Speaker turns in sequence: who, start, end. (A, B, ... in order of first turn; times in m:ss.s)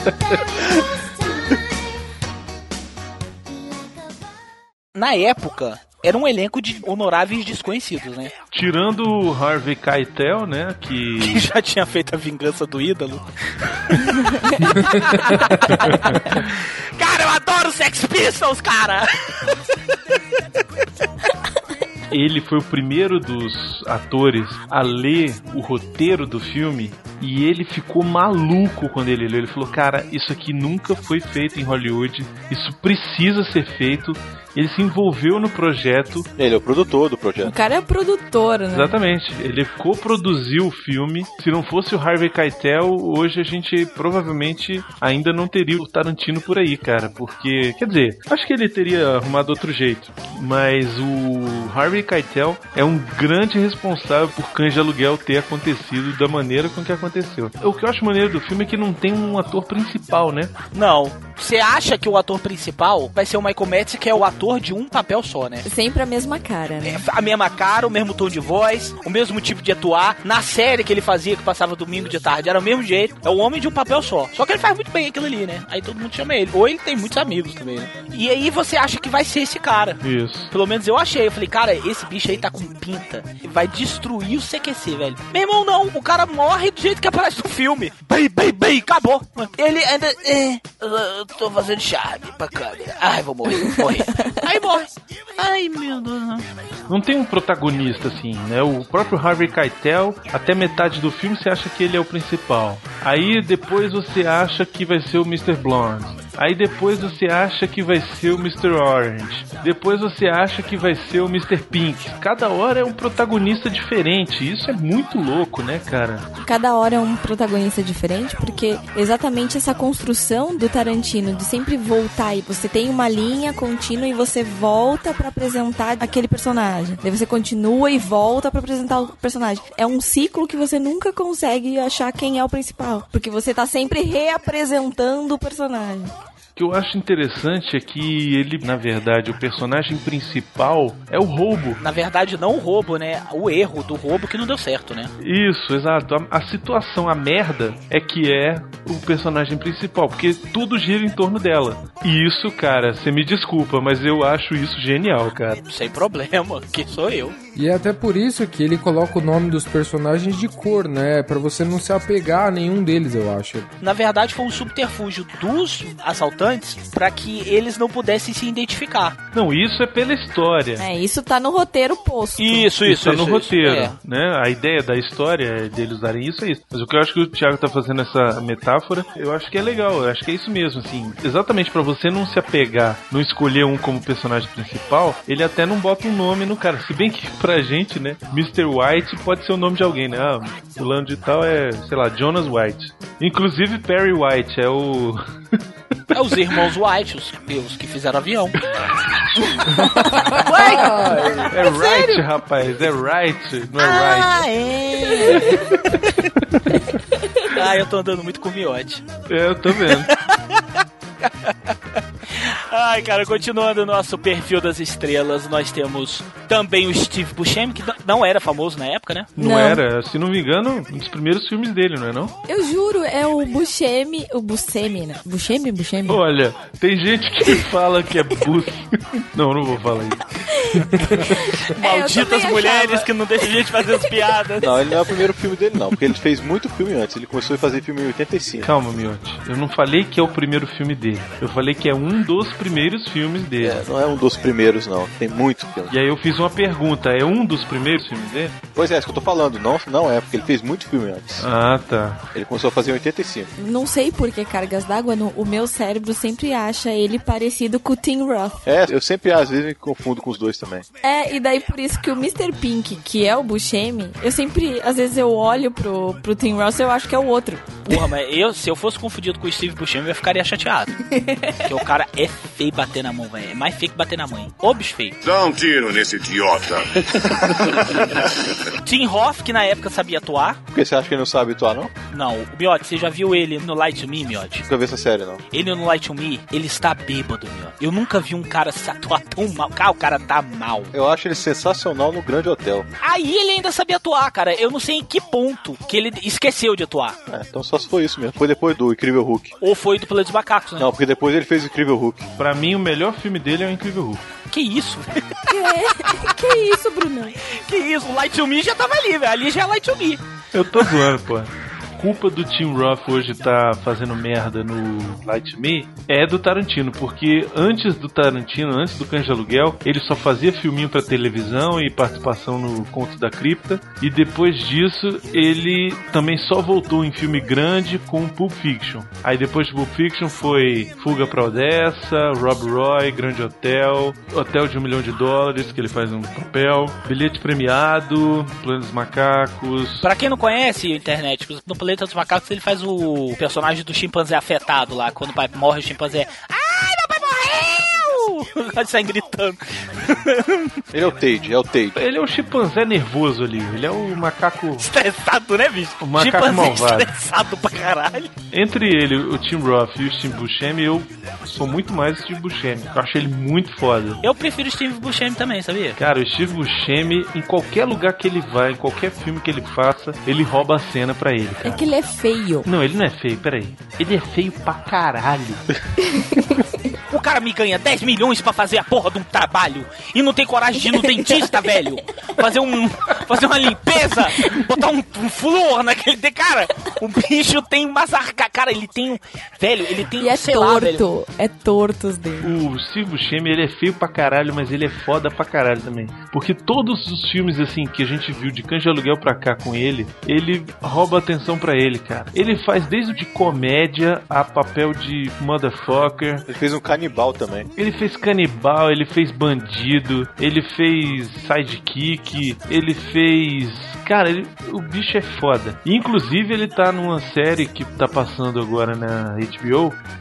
0:04.9-0:08.3 A
0:08.5-0:11.5 B
0:11.2-0:19.5 A
0:22.1-0:36.3 B
0:36.4-0:37.5 C
0:37.4-0:39.0 D
0:38.7-1:00.5 B
1:00.7-1:05.6 A
1:05.6-1:07.0 D
1:06.8-1:36.5 A
1:20.0-1:20.5 B
1:36.9-1:56.2 B
1:56.4-2:16.1 D
2:16.6-2:21.8 B
2:21.8-2:25.1 A
2:25.2-2:35.6 B
2:35.7-2:37.4 A
2:37.5-2:43.7 E
2:43.8-2:49.2 A
2:49.3-2:50.8 B
2:50.8-2:52.7 D
2:52.4-2:54.0 A
2:52.8-3:15.2 B
3:16.1-3:18.6 A
3:20.4-3:22.2 A
3:20.6-3:21.5 E
3:21.5-3:24.4 B
3:23.8-3:26.2 A
3:25.5-3:26.0 B
3:27.5-3:29.0 A
3:29.3-3:30.1 B
3:29.9-3:30.6 A
3:31.2-3:31.5 A
3:32.3-3:39.3 A
3:39.4-3:39.8 D
3:39.4-3:42.3 B
3:42.5-3:46.2 D
3:46.1-3:50.2 B
3:50.5-3:53.1 D
3:51.7-3:54.7 A
3:54.6-3:58.7 C
3:58.6-4:03.8 B
4:03.6-4:05.9 C
4:05.9-4:08.6 B
4:08.7-4:11.5 C
4:11.4-4:12.2 B
4:12.3-4:13.5 C
4:13.6-4:18.6 D
4:18.6-4:20.8 C
4:21.0-4:27.9 D
4:27.9-4:31.0 A
4:31.1-4:31.7 D
4:31.6-4:35.2 A
4:35.2-4:38.3 F
4:38.8-4:40.6 A
4:40.7-4:41.9 C
4:42.1-4:44.6 A
4:44.7-4:45.4 C
4:45.5-4:50.9 A
4:50.9-4:52.9 C
4:53.0-4:57.2 A
4:57.3-4:59.5 C
4:59.6-5:00.9 A
5:00.8-5:02.3 C
5:02.4-5:04.2 B
5:04.5-5:05.3 A
5:05.5-5:07.4 D
5:07.6-5:10.2 A
5:10.5-5:40.1 B
5:40.0-5:50.8 A
5:50.9-5:52.0 C
5:52.0-5:54.9 B
5:54.8-5:58.3 A
5:56.0-5:57.1 B
5:58.5-6:04.2 B
6:04.2-6:06.0 A
6:06.0-6:11.8 B
6:11.6-6:12.7 D
6:12.6-6:15.6 B
6:16.2-6:16.6 D
6:17.1-6:31.0 A
6:30.2-6:32.6 D
6:32.4-6:46.4 B
6:46.5-6:47.7 C
6:47.8-7:00.0 B